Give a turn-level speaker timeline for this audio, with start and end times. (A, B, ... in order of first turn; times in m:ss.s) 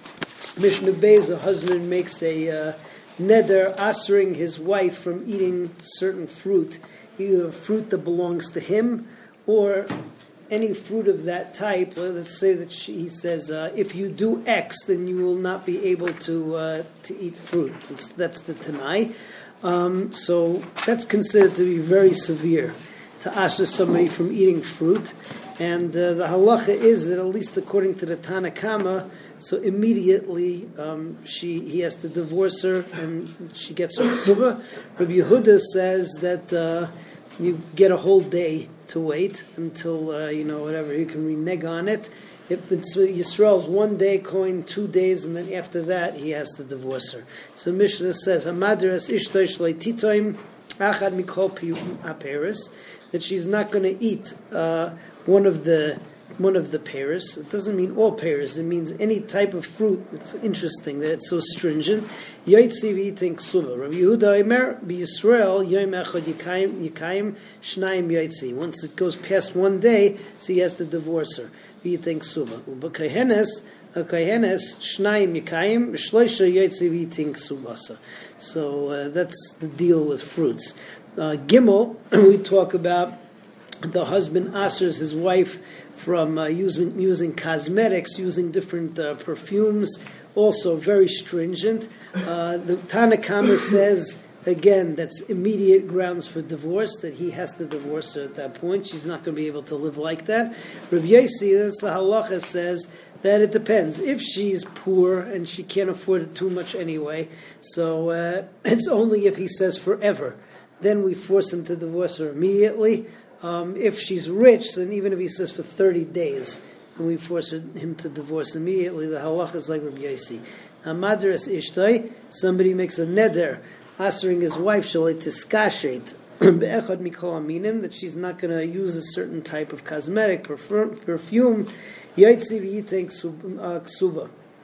0:00.6-0:09.9 A
0:10.5-0:19.1 A
0:19.6-1:23.2 A
1:23.8-2:14.3 A